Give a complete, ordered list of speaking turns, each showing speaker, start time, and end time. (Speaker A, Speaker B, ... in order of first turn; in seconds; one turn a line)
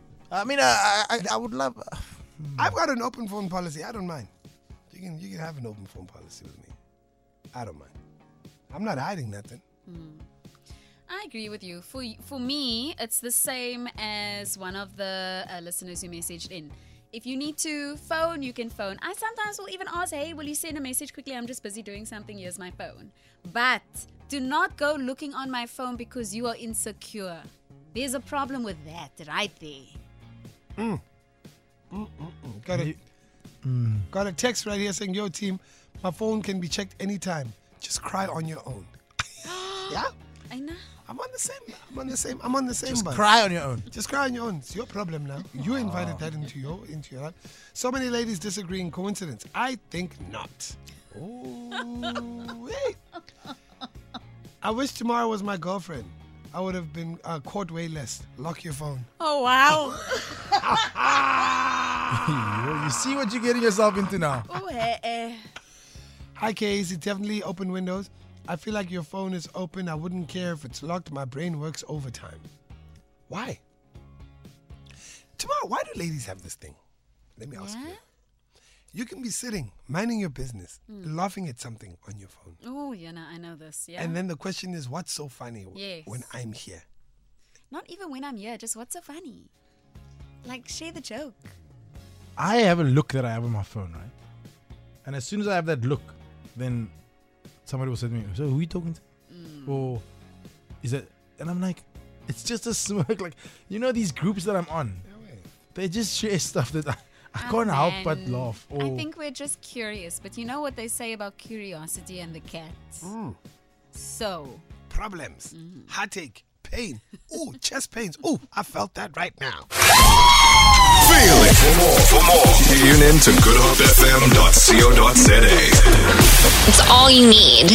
Speaker A: 0.3-2.7
Speaker B: 2.5-4.3
Speaker B: 4.9-6.7
Speaker B: 7.5-7.9
Speaker B: 8.7-9.6
Speaker C: 9.8-10.2
Speaker C: 11.1-30.0
Speaker B: 31.9-33.0
Speaker A: 33.6-34.1
Speaker B: 34.1-38.9
Speaker C: 39.4-40.8
Speaker B: 41.0-43.2
Speaker A: 42.9-43.9
Speaker B: 43.9-53.0
Speaker A: 45.7-46.2
Speaker B: 54.6-59.1
Speaker C: 59.2-61.1
Speaker B: 60.6-62.2
Speaker A: 62.1-64.5
Speaker C: 64.4-65.4
Speaker B: 66.3-72.5
Speaker B: 73.3-73.6
Speaker B: 75.4-76.8
Speaker B: 77.4-78.0
Speaker C: 77.5-78.0
Speaker B: 78.9-82.6
Speaker C: 80.9-81.1
Speaker C: 82.6-84.2
Speaker B: 84.0-86.8
Speaker C: 85.7-86.3
Speaker C: 87.7-89.5
Speaker C: 90.4-91.5
Speaker A: 92.4-94.1
Speaker A: 95.0-96.9
Speaker A: 97.7-99.0
Speaker C: 99.3-99.9
Speaker A: 99.7-100.0
Speaker A: 100.8-105.0
Speaker B: 105.0-105.5
Speaker A: 105.7-109.0
Speaker C: 107.4-113.1
Speaker B: 113.0-113.4
Speaker C: 113.9-114.6
Speaker B: 114.9-119.7
Speaker C: 115.5-115.9
Speaker D: 121.0-125.8